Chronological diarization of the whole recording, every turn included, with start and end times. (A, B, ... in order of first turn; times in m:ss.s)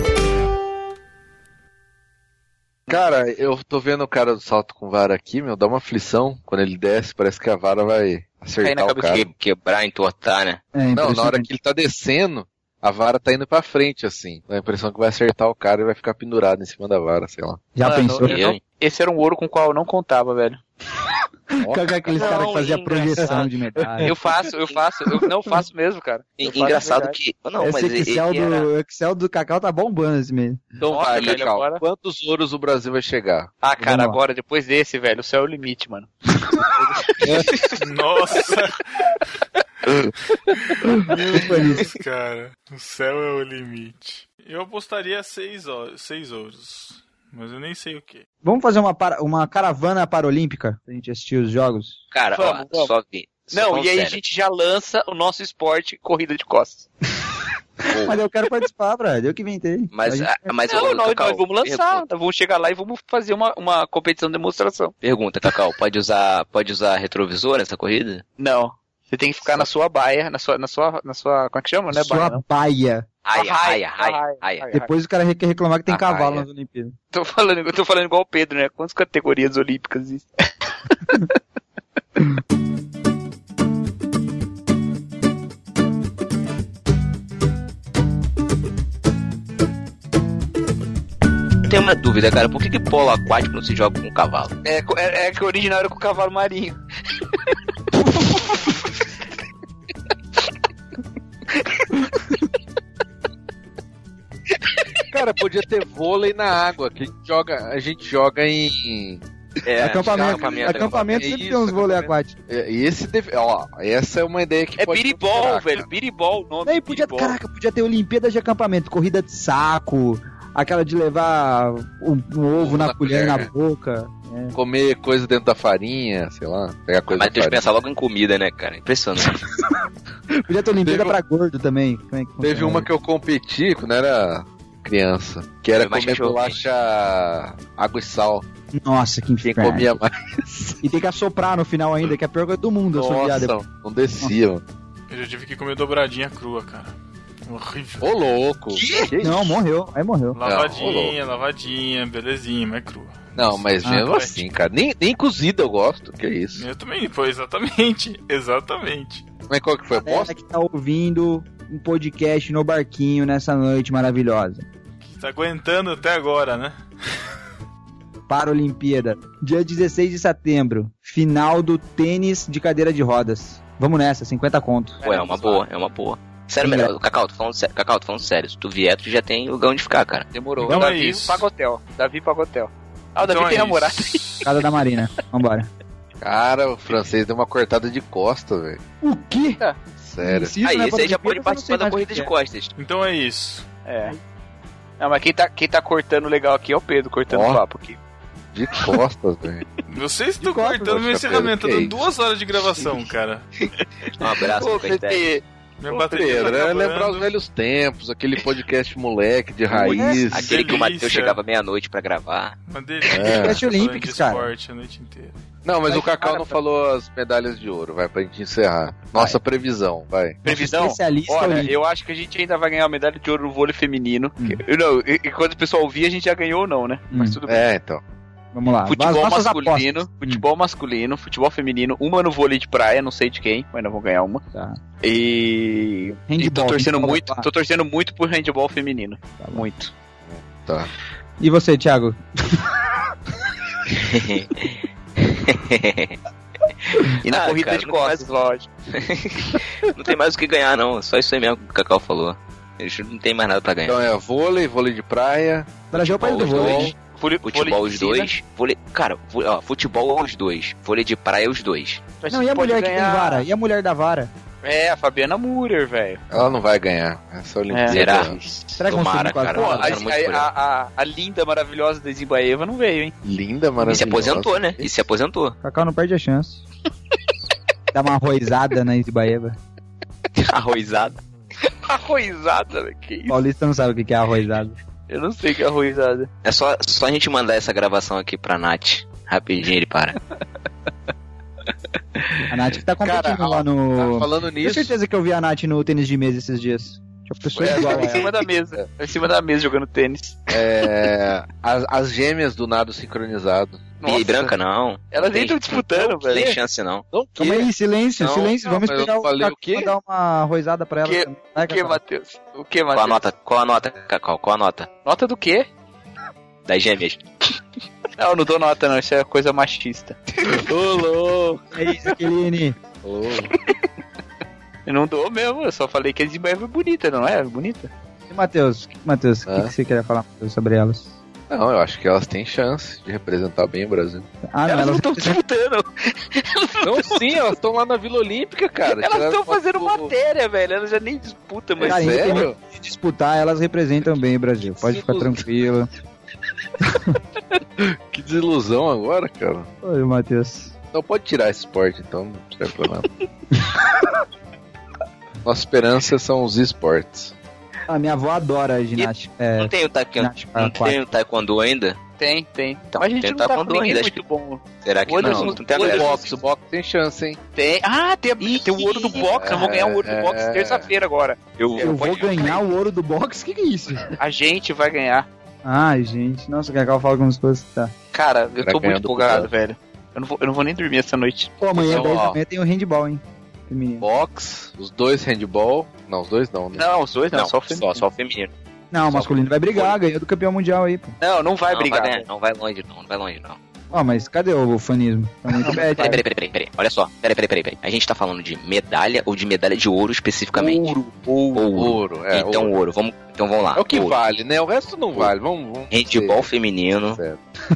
0:02.9-0:09.3 A
0:08.6-0:09.2 B
0:09.1-0:10.6 C
0:10.8-0:11.5 D
0:10.9-0:17.6 A
0:17.8-0:18.4 D
0:17.8-0:20.6 B
0:18.2-0:18.6 C
0:21.5-0:24.1 D
0:21.6-0:22.4 A
0:22.2-0:23.5 C
0:23.8-0:24.1 A
0:24.0-0:27.2 B
0:26.4-0:28.7 C
0:27.6-0:30.8 D
0:30.8-0:31.8 B
0:30.9-0:33.5 A
0:33.6-0:36.1 B
0:33.8-0:34.2 D
0:36.8-0:37.8 B
0:37.2-0:37.5 A
0:37.8-0:39.2 E
0:40.5-0:48.2 E
0:41.3-0:42.0 D
0:48.4-0:52.0 D
0:52.1-0:54.2 C
0:52.3-0:52.9 B
0:53.5-0:56.9 B
0:57.9-1:00.5 D
0:57.9-0:58.2 C
0:59.9-1:02.0 C
1:00.7-1:04.9 B
1:05.0-1:08.2 C
1:08.4-1:12.4 B
1:11.9-1:13.1 D
1:13.2-1:14.7 C
1:13.3-1:14.9 B
1:14.7-1:17.0 D
1:15.9-1:16.5 C
1:17.1-1:21.4 B
1:31.7-1:34.5 C
1:34.6-1:37.5 B
1:38.2-1:38.8 B
1:41.5-1:42.0 B
1:44.5-1:44.8 B
1:45.1-1:49.2 A
1:49.6-1:51.3 C
1:49.8-1:52.3 D
1:50.0-1:55.9 A
1:54.8-1:57.4 B
1:56.7-2:04.6 D
2:02.6-2:03.5 A
2:04.6-2:07.7 A
2:07.1-2:09.4 C
2:10.4-2:12.9 D
2:10.8-2:11.2 A
2:12.4-2:18.4 A
2:15.8-2:16.6 C
2:18.7-2:20.0 D
2:19.4-2:20.8 A
2:20.8-2:23.6 D
2:22.9-2:24.6 A
2:25.1-2:26.9 E
2:27.5-2:28.1 E
2:28.0-2:29.6 A
2:28.8-2:29.1 B
2:29.2-2:30.4 D
2:30.3-2:34.4 E
2:30.4-2:31.2 A
2:33.4-2:36.7 A
2:36.6-2:39.2 E
2:39.5-2:40.3 A
2:40.0-2:44.7 D
2:45.0-2:46.8 E
2:48.3-2:55.0 D
2:55.0-2:55.6 B
2:55.0-3:00.3 C
2:56.6-2:56.9 D
3:00.3-3:04.4 B
3:00.6-3:01.5 E
3:03.2-3:04.5 E
3:04.4-3:05.7 D
3:06.2-3:08.8 A
3:09.0-3:09.6 D
3:10.0-3:10.6 A
3:10.2-3:12.3 D
3:10.6-3:12.7 C
3:12.8-3:13.7 E
3:13.9-3:14.2 B
3:15.0-3:18.0 B
3:17.3-3:17.6 A
3:18.5-3:19.7 A
3:19.9-3:23.5 E
3:20.4-3:20.9 D
3:20.8-3:22.1 A
3:23.8-3:26.4 B
3:24.2-3:25.4 C
3:25.8-3:27.3 E
3:26.1-3:30.5 A
3:29.7-3:30.2 D
3:30.2-3:31.4 E
3:30.3-3:32.6 C
3:32.7-3:35.4 E
3:33.1-3:33.6 A
3:33.1-3:34.5 D
3:35.6-3:40.4 A
3:35.9-3:36.5 D
3:40.4-3:47.7 B
3:40.4-3:41.7 D
3:47.1-3:47.4 D
3:47.4-3:48.0 A
3:48.5-3:50.5 D
3:48.9-3:54.4 B
3:54.5-3:54.8 D
3:55.0-3:59.9 B
3:56.3-3:57.5 D
3:59.4-3:59.6 D
4:00.2-4:00.9 A
4:01.4-4:02.7 D
4:03.9-4:06.2 C
4:06.9-4:08.3 C
4:07.2-4:08.7 B
4:08.9-4:14.0 C
4:13.9-4:16.9 A
4:15.9-4:17.0 D
4:16.3-4:16.9 C
4:17.0-4:18.3 B
4:17.4-4:22.0 C
4:22.2-4:23.5 B
4:22.3-4:24.3 D
4:24.6-4:26.3 B
4:26.3-4:28.4 A
4:27.7-4:28.8 B
4:27.9-4:30.5 C
4:28.8-4:30.0 D
4:29.5-4:33.2 B
4:33.2-4:34.9 A
4:33.8-4:35.6 C
4:35.6-4:36.6 D
4:37.9-4:39.6 D
4:40.4-4:41.2 C
4:41.6-4:43.4 B
4:43.3-4:44.8 D
4:45.1-4:46.3 B
4:46.4-4:50.2 C
4:52.5-4:58.3 D
4:53.0-4:55.0 A
4:57.6-5:00.6 B
4:57.6-4:58.9 A
5:00.5-5:03.8 A
5:04.0-5:04.6 B
5:04.0-5:07.0 C
5:05.1-5:06.5 B
5:06.3-5:06.6 A
5:07.1-5:10.0 A
5:07.4-5:12.0 D
5:11.0-5:13.2 B
5:12.9-5:14.9 C
5:15.0-5:15.7 B
5:16.7-5:17.2 C
5:18.2-5:20.6 B
5:20.4-5:21.6 A
5:21.7-5:22.8 D
5:23.0-5:23.5 A
5:23.5-5:23.8 B
5:24.9-5:27.9 B
5:28.3-5:31.1 D
5:29.5-5:29.7 A
5:31.5-5:34.3 A
5:34.5-5:35.4 D
5:34.7-5:37.3 B
5:36.8-5:40.1 A
5:38.9-5:42.5 B
5:41.8-5:42.6 A
5:41.8-5:45.9 D
5:44.6-5:45.5 A
5:46.8-5:47.2 D
5:47.8-5:49.7 A
5:49.8-5:50.8 D
5:50.9-5:53.1 A
5:55.4-5:57.4 A
5:57.9-6:01.0 D
5:59.0-6:02.0 C
6:02.2-6:06.4 B
6:02.9-6:04.2 C
6:04.8-6:06.3 C
6:05.2-6:07.4 A
6:07.6-6:12.0 B
6:08.4-6:09.7 C
6:09.2-6:10.9 A
6:11.6-6:12.7 C
6:11.8-6:14.2 D
6:14.2-6:15.3 B
6:15.6-6:17.9 D
6:18.1-6:21.6 B
6:18.6-6:19.5 A
6:21.6-6:24.1 D
6:21.8-6:22.4 A
6:24.0-6:26.8 A
6:26.8-6:28.0 B
6:27.3-6:28.5 C
6:28.9-6:31.2 D
6:29.1-6:30.0 C
6:31.2-6:32.3 B
6:31.7-6:33.6 C
6:33.9-6:36.2 D
6:35.6-6:36.2 B
6:35.7-6:40.9 C
6:40.6-6:41.6 B
6:41.5-6:44.2 C
6:41.7-6:42.8 A
6:43.8-6:46.5 A
6:45.9-6:47.2 C
6:47.1-6:47.4 A